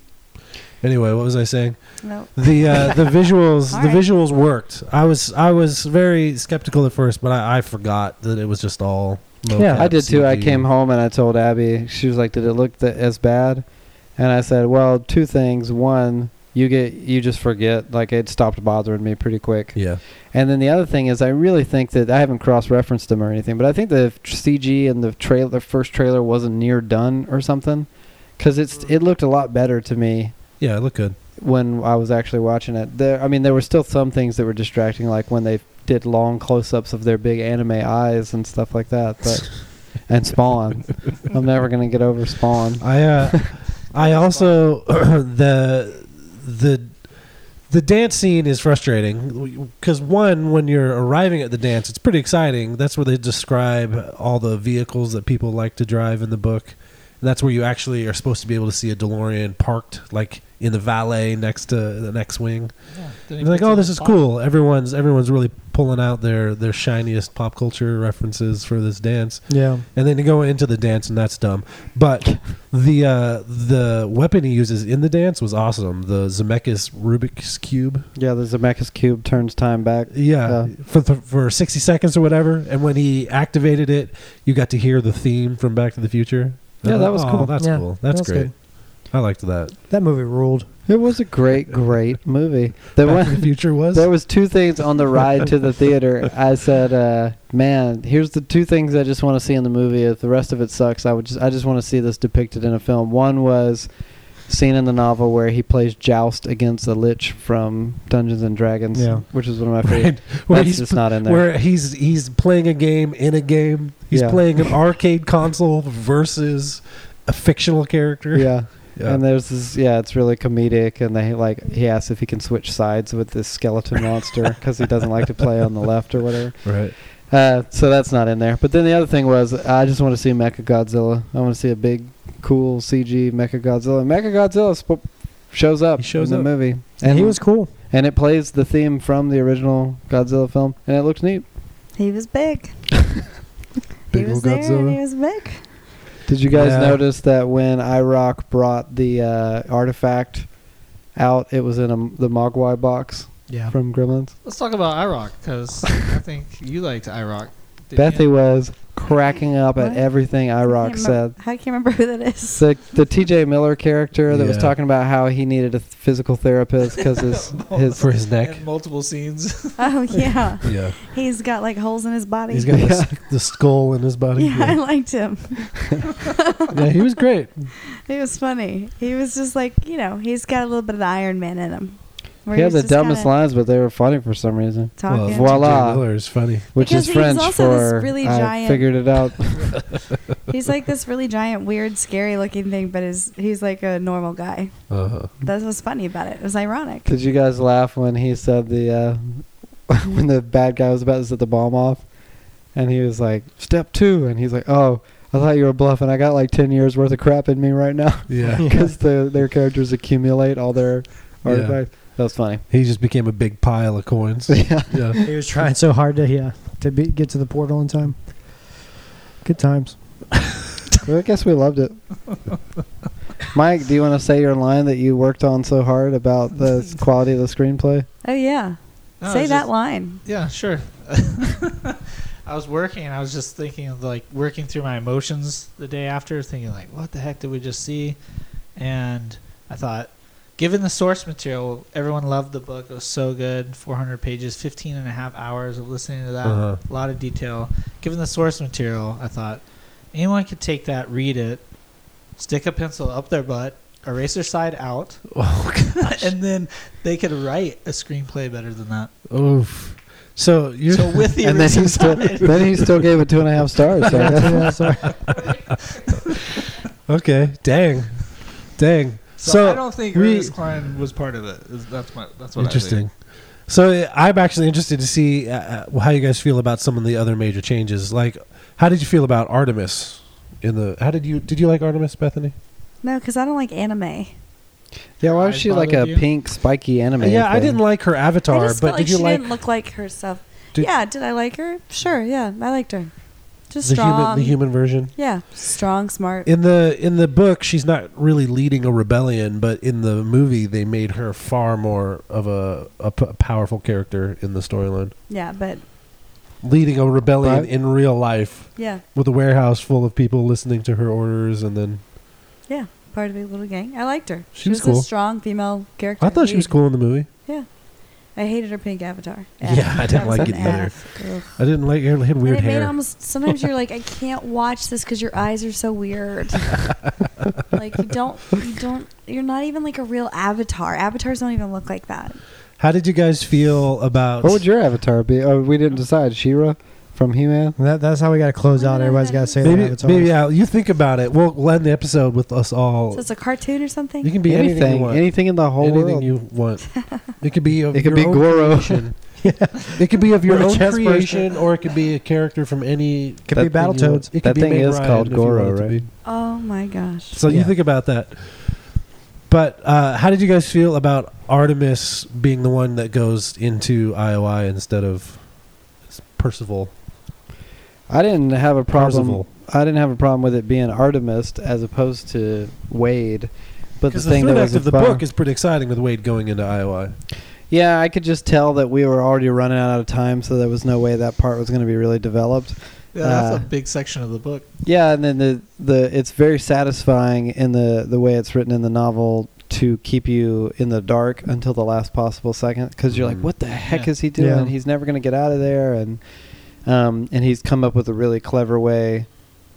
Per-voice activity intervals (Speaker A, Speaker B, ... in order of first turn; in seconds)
Speaker A: 0.8-10.7, 19.7-20.0, 30.6-31.2, 42.8-78.1, 80.1-89.7, 93.0-94.1, 109.8-119.2, 126.6-126.9, 136.0-136.5, 144.1-145.0, 146.5-147.0, 164.3-164.7, 168.0-168.6, 170.6-170.9, 172.5-174.8, 176.7-177.6, 185.1-186.7, 194.9-195.3, 208.3-208.7, 211.4-212.1, 212.7-215.2, 246.4-246.8, 255.3-256.3, 259.3-261.4, 267.1-270.5, 272.6-273.1, 273.6-282.5, 287.2-289.5, 293.8-295.1, 296.4-305.1, 306.6-312.0, 314.5-315.1, 316.2-317.3, 319.6-322.9, 332.8-334.6, 339.6-343.2, 344.2-349.2, 349.9-356.1, 357.3-358.9, 359.5-365.4, 366.1-366.9, 368.9-369.5, 374.1-377.1, 393.1-393.5
Speaker B: 2.0-3.0, 3.7-4.0, 142.0-142.8, 144.1-145.7, 159.8-162.7, 169.8-172.9, 174.3-176.8, 177.9-183.3, 185.0-185.6, 186.8-188.9, 190.5-197.1, 228.2-230.2, 283.0-284.3, 288.5-293.1, 293.7-296.5, 305.3-305.8, 308.8-309.0, 312.7-317.7, 318.3-321.6, 322.4-326.9, 327.7-332.4, 338.7-339.7, 343.1-344.3, 356.2-357.4
Speaker C: 9.5-9.9, 69.5-69.8, 87.2-88.5, 89.9-90.7, 108.9-109.2, 137.0-137.7, 153.5-153.7, 208.6-208.8, 215.2-218.7, 219.4-220.2, 264.1-265.2, 337.8-340.3, 349.4-351.5, 353.5-354.3, 357.5-357.7, 394.4-394.7
Speaker D: 9.6-30.4, 31.4-43.5, 78.2-80.7, 86.8-87.5, 90.8-103.9, 104.4-111.4, 114.1-114.6, 118.3-141.4, 146.3-150.6, 151.1-154.3, 157.9-161.3, 162.5-168.1, 172.7-173.1, 182.5-189.8, 197.1-202.2, 202.7-212.6, 214.5-215.3, 221.0-222.0, 223.5-228.1, 261.4-264.7, 285.2-287.8, 307.4-307.7, 334.4-337.8, 344.5-346.3, 347.9-349.1, 353.5-356.0, 368.1-375.2, 377.7-383.7, 384.8-396.2, 396.8-399.4
Speaker E: 43.9-44.5, 62.9-64.2, 154.4-158.3, 167.0-170.2, 229.2-238.2, 238.7-251.7, 252.3-259.1, 260.9-263.2, 269.4-273.0, 285.2-286.3, 383.1-384.6, 393.8-394.2